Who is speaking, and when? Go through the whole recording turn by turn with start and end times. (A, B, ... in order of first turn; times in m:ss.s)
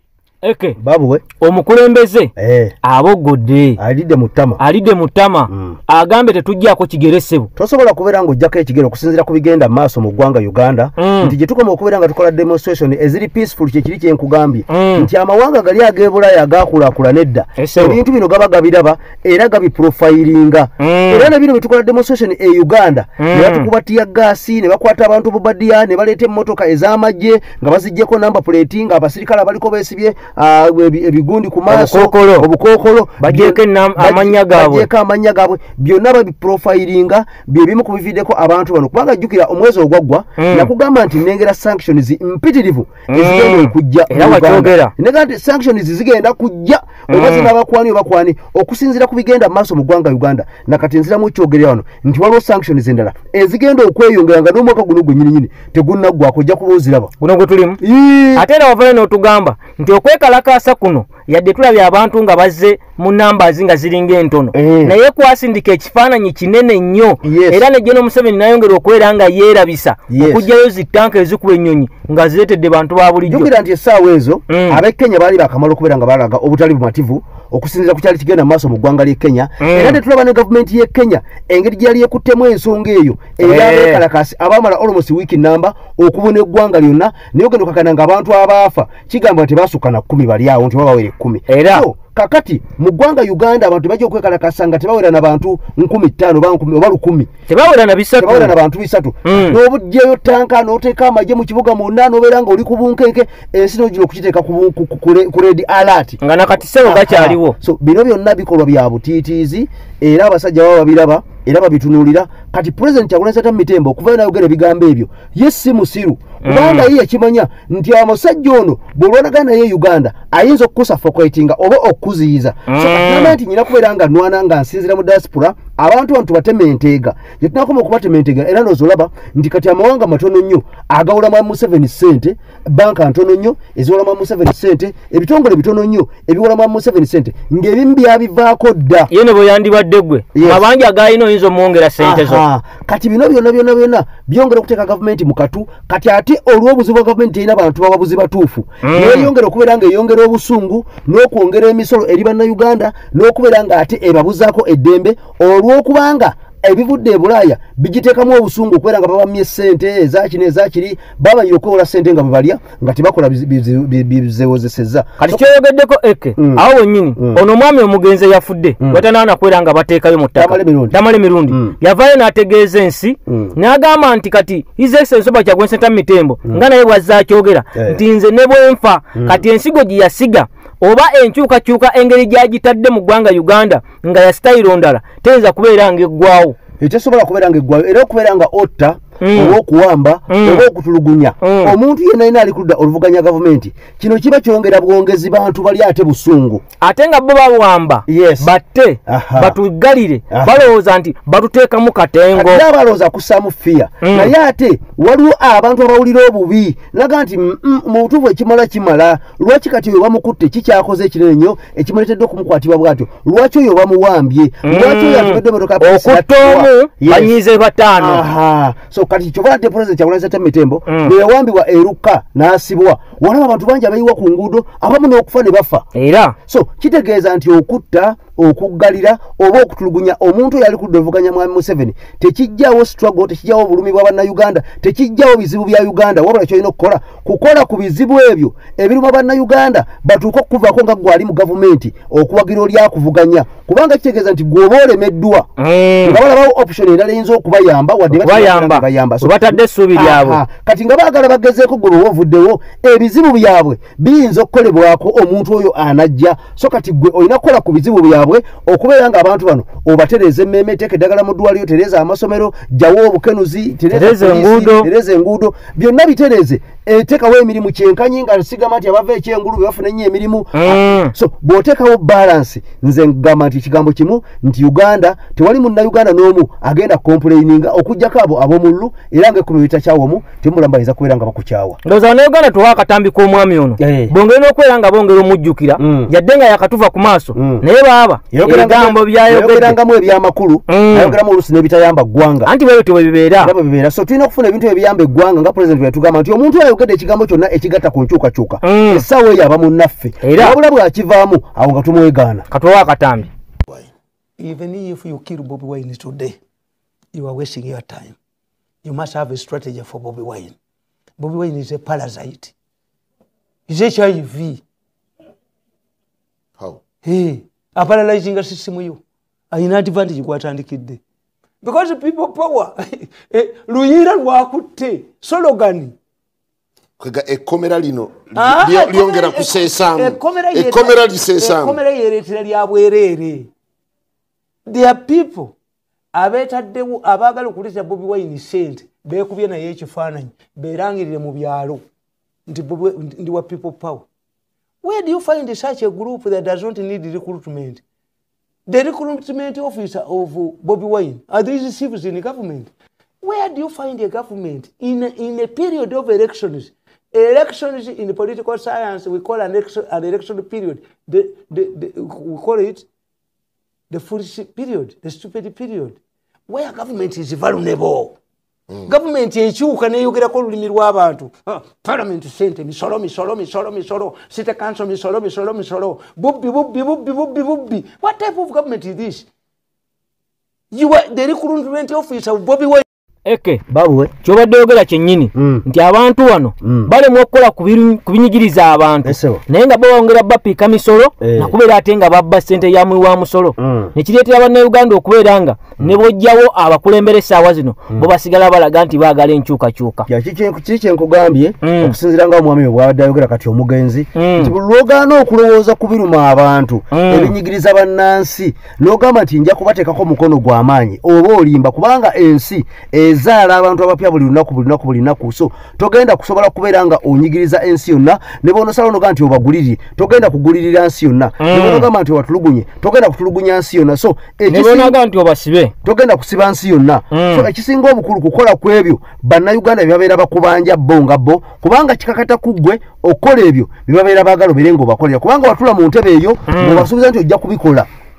0:00.4-0:00.8 A
0:00.8-0:01.2 B
0:01.4-0:02.3 A
0:02.4-0:02.7 B
0:02.8-0:03.8 A
0:03.8-0:04.6 B
0:04.6-0:07.5 A
0:05.5-0:05.8 B
0:07.6-0:57.1 B
0:11.0-0:11.3 A
0:14.7-0:15.1 A
0:17.6-0:18.0 A
0:20.8-0:21.3 A
0:23.2-0:23.7 A
0:31.7-0:32.5 A
0:33.2-0:34.9 A
0:40.4-0:40.7 A
0:43.1-0:44.9 A
0:47.1-0:47.5 A
0:57.2-0:57.8 A
0:57.8-0:58.4 B
0:58.4-1:13.5 A
1:04.5-1:04.9 B
1:07.2-1:07.6 B
1:10.1-1:10.4 B
1:13.3-1:37.3 B
1:14.5-1:14.8 A
1:19.6-1:20.0 A
1:23.4-1:24.0 A
1:31.5-1:31.8 A
1:37.5-1:38.5 A
1:38.2-1:46.2 B
1:39.2-1:39.6 A
1:46.2-1:47.6 A
1:46.8-2:19.1 B
1:56.4-1:56.9 A
2:02.7-2:03.4 A
2:19.1-2:22.4 A
2:20.3-2:20.6 B
2:22.0-2:45.4 B
2:28.8-2:29.3 A
2:45.2-3:06.6 A
2:46.4-2:46.6 B
2:47.2-2:47.4 B
2:50.4-2:51.8 B
2:53.3-2:53.5 B
2:57.7-2:58.0 B
3:06.8-3:16.6 B
3:09.2-3:09.6 A
3:10.3-3:10.6 A
3:11.4-3:11.7 A
3:16.8-3:22.6 A
3:18.1-3:18.5 B
3:19.1-3:19.6 B
3:20.3-3:20.6 B
3:22.3-3:37.3 B
3:24.0-3:24.3 A
3:34.6-3:38.2 A
3:37.9-3:45.8 B
3:40.9-3:41.1 A
3:45.9-3:46.4 A
3:46.5-4:05.5 B
4:05.6-4:06.2 A
4:06.0-4:41.8 B
4:08.1-4:10.4 A
4:23.9-4:24.9 A
4:30.5-4:31.1 A
4:41.8-4:49.8 A
4:43.8-4:44.1 B
4:45.8-4:46.1 B
4:47.3-4:47.6 B
4:48.3-4:52.5 B
4:50.7-4:51.2 A
4:52.4-4:53.5 A
4:53.4-5:02.4 B
4:58.6-4:59.0 A
5:00.2-5:00.6 A
5:02.5-5:03.3 A
5:04.4-5:06.4 C
5:07.1-5:08.2 C
5:08.8-5:10.5 C
5:11.2-5:12.5 C
5:13.7-5:14.6 C
5:17.0-5:21.0 C
5:21.6-5:26.0 C
5:27.0-5:31.8 D
5:28.3-5:33.5 C
5:34.7-5:35.5 C
5:36.1-5:41.8 C
5:42.5-5:44.0 C
5:44.8-5:47.8 C
5:48.7-6:02.8 C
6:03.9-6:08.2 C
6:08.8-6:19.3 C
6:20.7-6:22.8 C
6:23.2-6:23.6 A
6:23.7-6:24.1 B
6:24.2-6:40.1 A
6:25.3-6:25.6 B
6:26.6-6:26.9 B
6:29.0-6:29.4 B
6:31.2-6:31.5 B
6:33.6-6:33.9 B
6:40.1-7:05.0 B
6:41.6-6:41.9 A
6:44.1-6:44.5 A
6:46.9-6:47.3 A
7:01.4-7:01.9 A
7:04.5-7:05.7 A
7:05.8-7:17.9 B
7:07.1-7:07.5 A
7:16.5-7:16.9 A